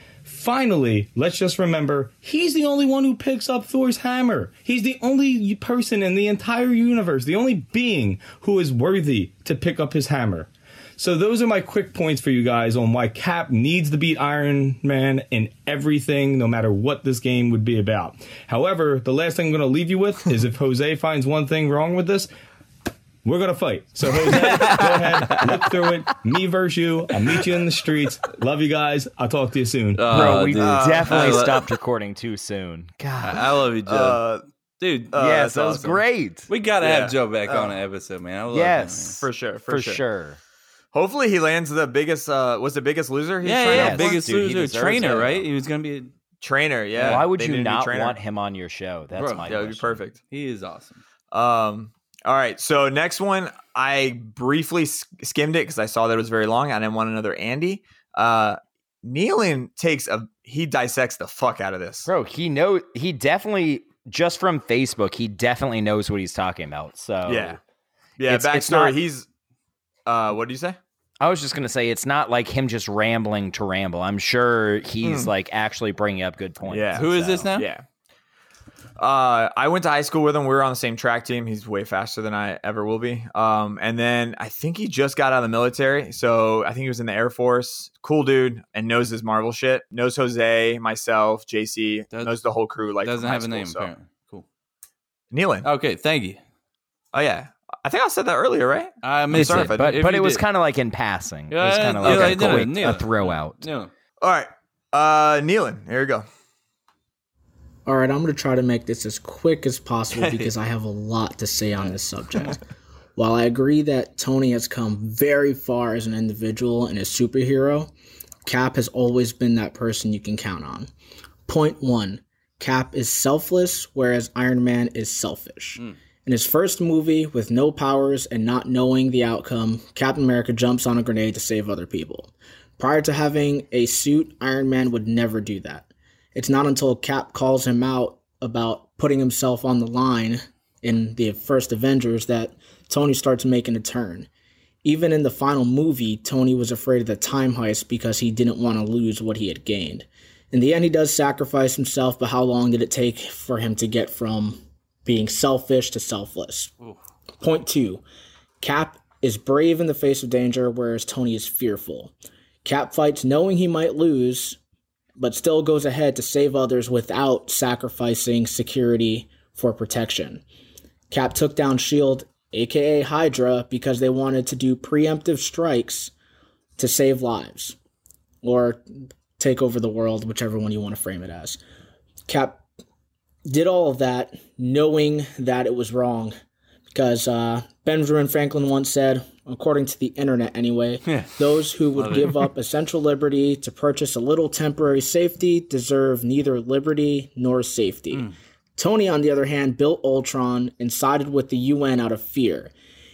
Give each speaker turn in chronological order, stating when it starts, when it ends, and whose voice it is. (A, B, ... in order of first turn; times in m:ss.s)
0:00.2-0:22.3 A
0:23.2-0:30.3 A
0:24.3-0:25.6 B
0:30.0-0:31.7 C
0:30.1-0:33.5 B
0:30.6-0:31.5 D
0:33.2-0:34.2 C
0:33.9-0:34.4 D
0:34.8-0:35.1 C
0:35.1-0:36.0 D
0:35.1-0:36.5 B
0:36.5-0:39.2 C
0:36.8-0:37.7 D
0:38.5-0:40.4 B
0:39.2-0:40.0 D
0:40.9-0:44.2 D
0:43.4-0:46.1 C
0:43.7-0:45.5 B
0:46.4-0:48.2 D
0:47.0-0:47.2 C
0:47.0-0:50.0 B
0:49.2-0:49.5 C
0:49.5-0:50.2 D
0:50.3-0:51.0 C
0:51.3-1:02.1 D
1:02.1-1:07.6 B
1:07.3-1:07.6 D
1:08.2-1:09.3 D
1:08.2-1:09.0 B
1:10.1-1:10.8 D
1:11.2-1:17.5 B
1:15.0-1:15.3 D
1:16.6-1:17.8 D
1:17.0-1:17.7 C
1:19.0-1:33.9 D
1:33.0-1:34.5 C
1:35.3-1:35.7 D
1:35.6-1:36.4 C
1:37.1-1:40.0 D
1:39.0-1:40.4 C
1:39.3-1:43.6 B
1:41.5-1:43.9 C
1:42.0-1:42.5 D
1:44.2-1:46.3 D
1:47.9-1:52.6 E
1:50.2-1:50.4 D
1:53.2-1:57.9 E
1:58.4-2:00.9 E
2:01.5-2:24.3 E
2:24.8-2:36.7 E
2:37.4-2:38.0 E
2:38.6-2:42.1 E
2:42.6-2:44.6 E
2:45.2-2:50.4 E
2:51.1-2:56.1 E
2:56.8-2:57.8 E
2:58.4-2:58.8 E
2:59.4-3:01.6 E
3:02.3-3:02.6 E
3:03.5-3:06.4 E
3:06.9-3:22.7 E
3:11.1-3:11.4 C
3:11.9-3:12.5 C